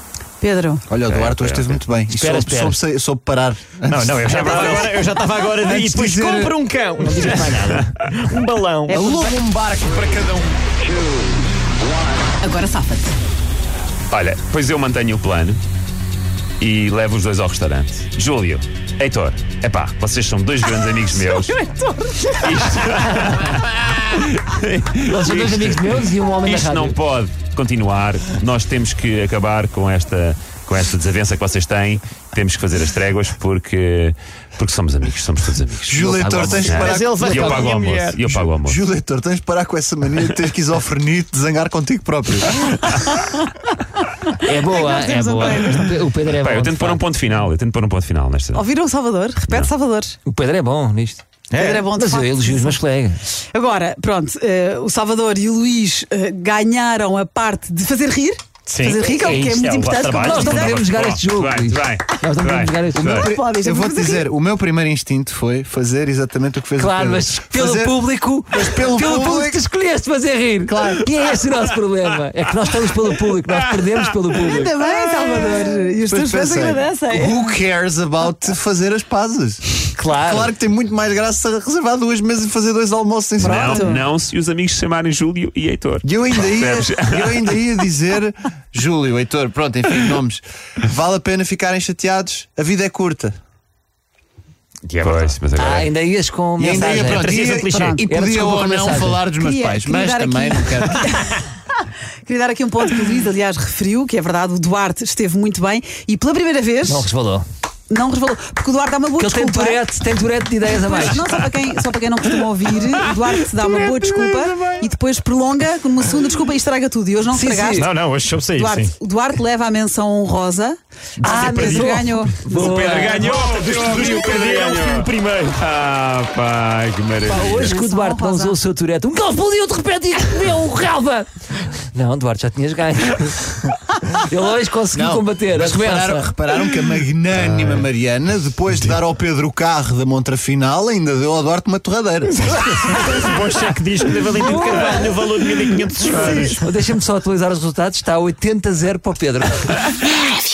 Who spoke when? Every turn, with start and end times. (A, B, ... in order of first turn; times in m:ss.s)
0:00.4-0:00.8 A
0:00.9-0:04.9 B
0:01.0-0:01.8 C
0:02.1-0:02.8 D
0:03.9-0:09.3 E
0:04.3-0:04.9 C
0:05.6-0:06.6 B
0:07.0-0:07.8 D
0:08.9-0:10.8 B
0:12.4-0:13.2 A
0:14.1-0:15.6 C
0:16.6-0:21.5 C
0:21.0-0:22.7 A
0:22.4-0:36.0 C
0:25.0-0:27.0 D
0:35.9-0:37.0 D
0:35.9-0:42.8 B
0:36.6-0:38.8 C
0:36.9-0:38.3 E
0:44.4-0:47.0 D
0:44.6-0:45.9 A
0:46.4-0:48.7 C
0:48.5-0:50.2 A
0:50.2-0:51.2 D
0:51.5-0:51.9 E
0:51.5-0:52.8 A
0:51.9-0:53.2 D
0:53.5-1:00.8 A
0:58.6-1:01.2 E
0:59.0-1:03.2 D
1:01.1-1:03.3 C
1:03.0-1:09.6 B
1:03.0-1:04.3 A
1:06.8-1:14.7 D
1:10.6-1:11.1 B
1:14.4-1:17.6 A
1:16.1-1:23.9 B
1:19.9-1:20.5 D
1:23.4-1:27.6 C
1:23.4-1:24.0 A
1:26.0-1:33.4 B
1:34.9-1:35.4 E
1:35.0-1:35.9 C
1:35.5-1:37.4 D
1:36.6-1:41.1 B
1:36.8-1:38.0 E
1:37.6-1:38.0 A
1:38.0-1:39.2 D
1:39.3-1:47.0 A
1:46.8-1:47.4 D
1:47.9-1:49.8 A
1:49.2-1:51.5 D
1:50.7-1:57.9 A
1:53.6-1:54.3 D
1:57.3-1:57.9 D
1:57.7-1:58.9 E
1:58.6-2:02.4 A
2:01.2-2:03.9 D
2:01.2-2:05.6 E
2:03.3-2:07.8 C
2:07.2-2:16.7 D
2:07.6-2:08.6 A
2:14.9-2:22.6 B
2:22.7-2:26.6 E
2:24.4-2:24.7 D
2:26.1-2:29.9 D